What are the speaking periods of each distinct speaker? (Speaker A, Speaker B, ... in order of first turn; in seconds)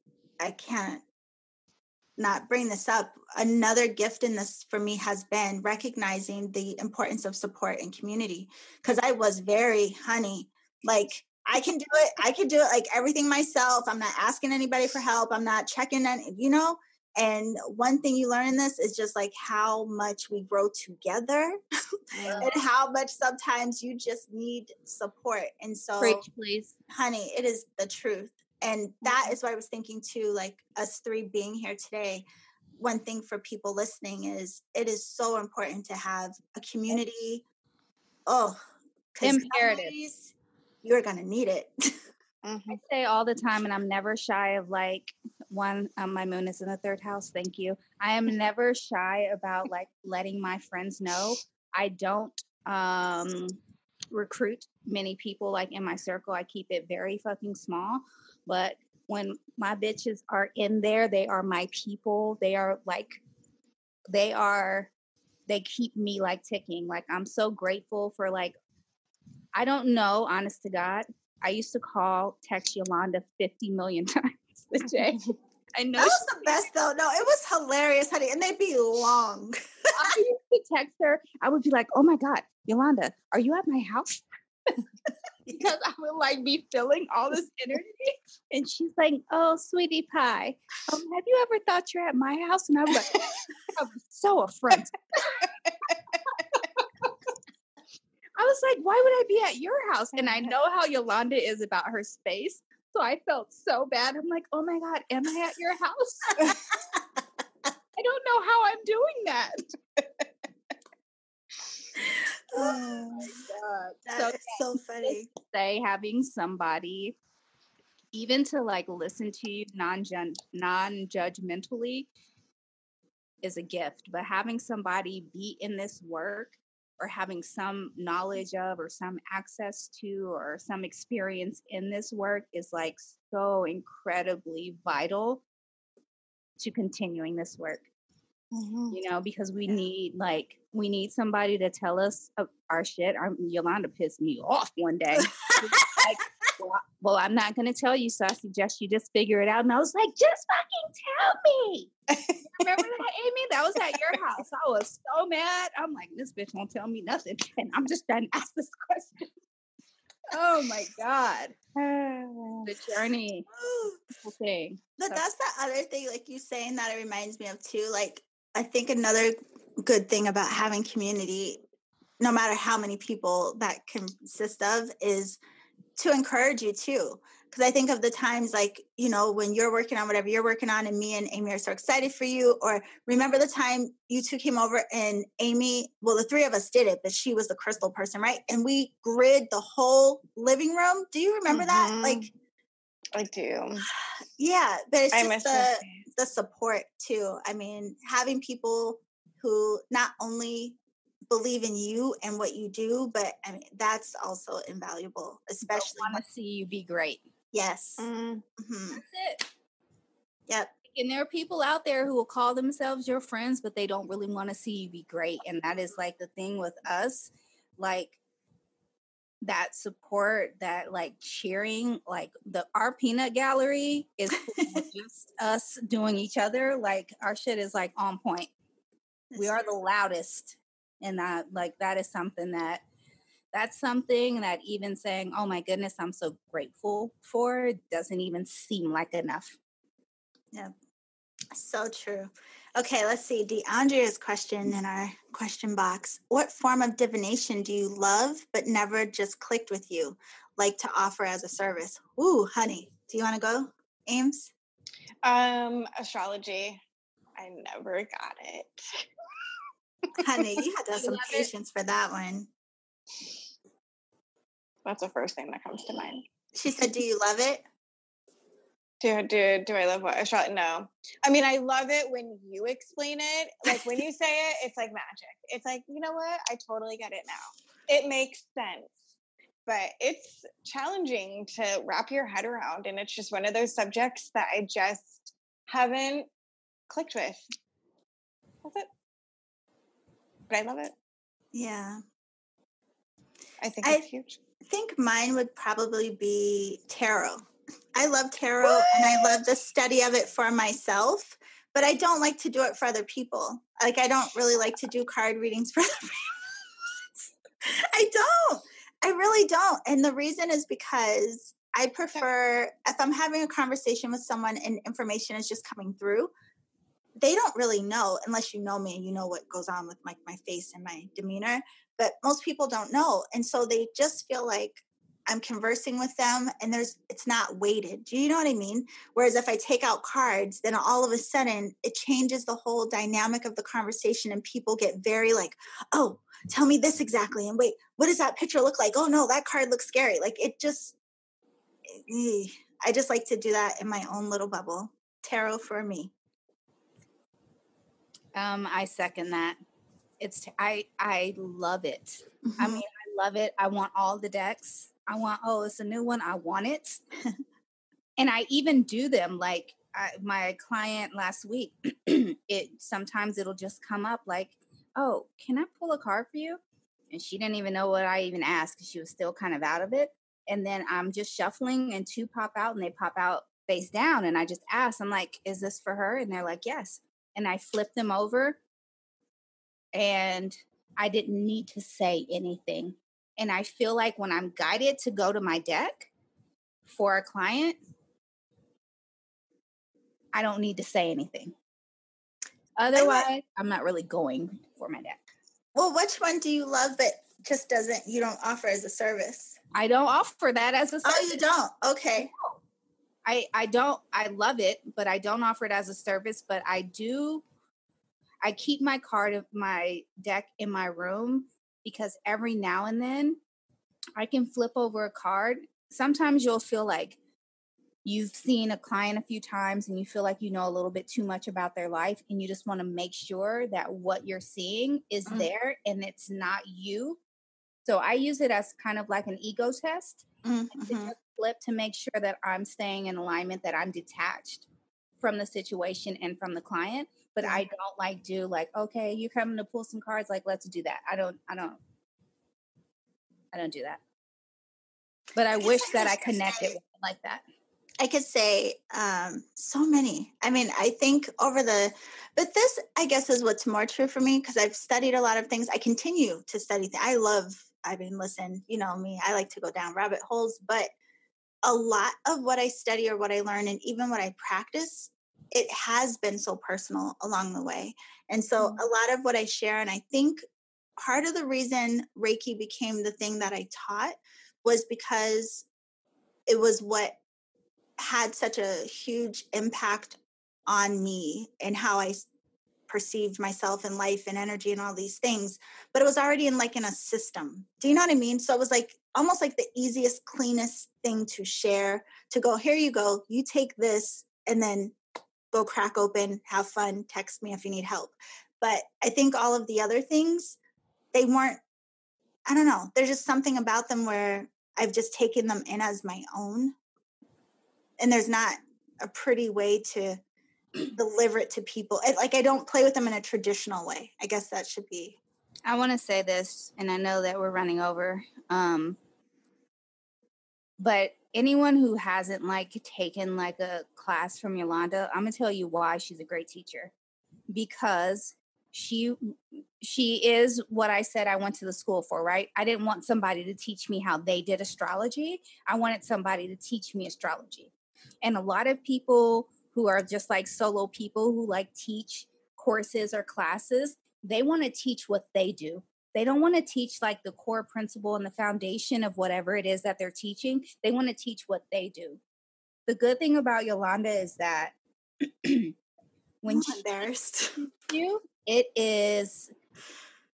Speaker A: 0.4-1.0, 2.2-21.6, 22.4-26.2, 26.9-32.2, 32.8-37.4, 38.3-38.6, 39.1-41.9, 76.0-80.2, 112.5-113.3, 114.1-115.3, 163.5-164.0, 165.0-171.6, 172.2-175.4, 176.0-192.3, 194.4-200.8, 201.3-206.2, 207.5-209.0, 229.3-229.6, 241.5-254.5, 260.2-262.5, 266.5-267.6, 291.5-292.0, 294.7-306.3, 307.6-316.3, 317.2-340.9, 342.0-346.1, 352.4-352.8, 392.9-393.3, 395.7-399.6, 401.0-402.3, 430.4-431.1, 445.6-446.8, 448.0-460.9, 461.6-470.4, 471.0-475.6, 476.5-477.2, 478.0-482.3, 482.9-494.9, 495.5-500.6, 501.1-501.6, 502.5-506.7, 508.0-510.2, 510.9-515.2, 556.5-557.6
Speaker B: 22.1-22.5, 29.1-29.3, 42.4-42.8, 100.2-100.5, 138.5-139.0, 152.1-152.9, 153.9-154.2, 161.7-162.9, 191.5-192.3, 193.1-193.9, 195.1-196.0, 208.0-208.4, 255.2-256.8, 257.4-259.1, 264.8-266.2, 269.0-279.1, 279.6-286.3, 286.9-287.5, 288.6-288.9, 290.5-290.9, 293.6-294.4, 298.6-299.4
Speaker C: 26.0-26.7, 39.2-40.0, 42.7-53.6, 54.1-63.2, 64.1-64.9, 65.5-68.5, 69.5-76.7, 79.9-84.2, 85.5-95.5, 96.5-97.1, 98.4-106.6, 108.0-109.6, 112.6-117.2, 118.1-122.1, 123.4-135.4, 136.6-137.9, 138.9-151.9, 152.6-159.3, 160.3-161.5, 162.7-163.5, 164.2-165.2, 205.7-207.2, 208.9-209.4, 210.9-218.2, 219.4-228.5, 229.4-232.8, 233.5-239.6, 261.0-261.5, 348.3-349.6, 350.2-357.0, 358.2-366.6, 367.1-378.6, 379.9-386.1, 386.9-387.8, 390.3-391.5, 392.8-395.2, 399.7-401.4, 403.2-407.4, 408.4-413.4, 414.1-417.2, 418.0-427.2, 427.9-430.2, 430.7-434.6, 435.2-441.8, 443.5-444.0, 445.3-447.4, 515.6-519.0, 520.8-526.9, 527.5-552.2, 552.9-554.7, 555.4-555.7, 556.4-556.8, 557.6-559.5